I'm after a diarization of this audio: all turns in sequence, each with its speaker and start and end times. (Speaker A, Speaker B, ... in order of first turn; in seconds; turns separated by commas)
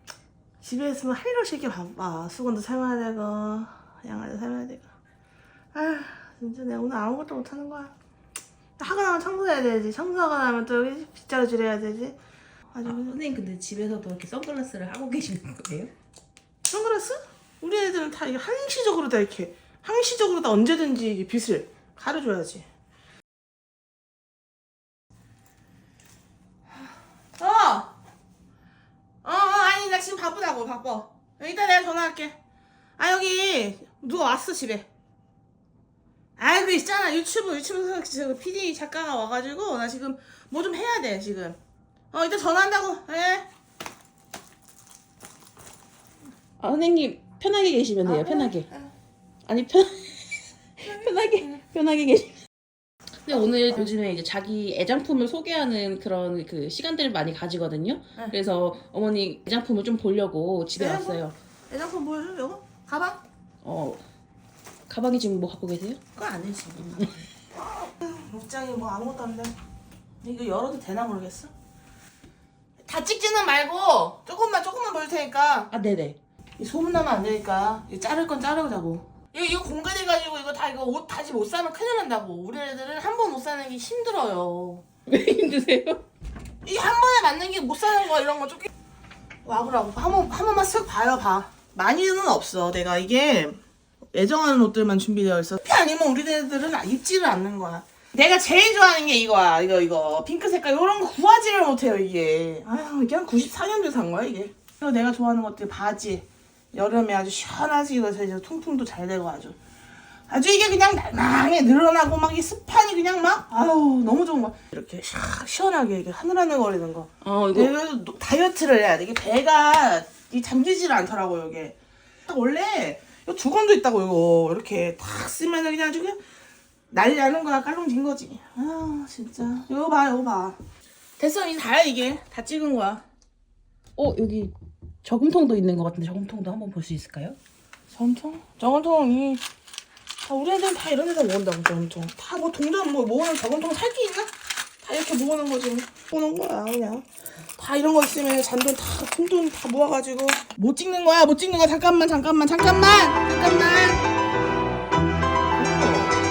Speaker A: 0.6-4.9, Speaker A: 5.7-8.0, Speaker A: 8.8-12.2, Speaker A: 12.7-13.2, Speaker B: 12.8-15.9, Speaker A: 16.7-22.7, Speaker A: 27.4-27.9, Speaker A: 29.2-32.4, Speaker A: 33.0-34.9, Speaker A: 36.4-41.6, Speaker A: 42.1-43.5, Speaker B: 46.6-48.7, Speaker A: 48.0-48.9, Speaker B: 49.5-52.4, Speaker A: 50.9-51.5, Speaker B: 53.2-61.4, Speaker A: 60.8-63.2, Speaker B: 63.6-64.0, Speaker B: 64.9-66.0, Speaker A: 66.2-69.5, Speaker A: 70.2-71.5, Speaker A: 72.8-75.7, Speaker B: 75.7-76.2, Speaker A: 76.6-84.8, Speaker B: 85.1-86.0, Speaker A: 86.6-88.7, Speaker A: 89.5-93.6, Speaker A: 94.1-109.6, Speaker A: 110.3-126.2, Speaker B: 117.2-117.7, Speaker A: 126.9-130.6, Speaker A: 131.2-133.0, Speaker B: 134.0-137.4, Speaker A: 137.9-139.4, Speaker A: 140.2-144.3, Speaker A: 144.8-154.0, Speaker A: 155.6-156.2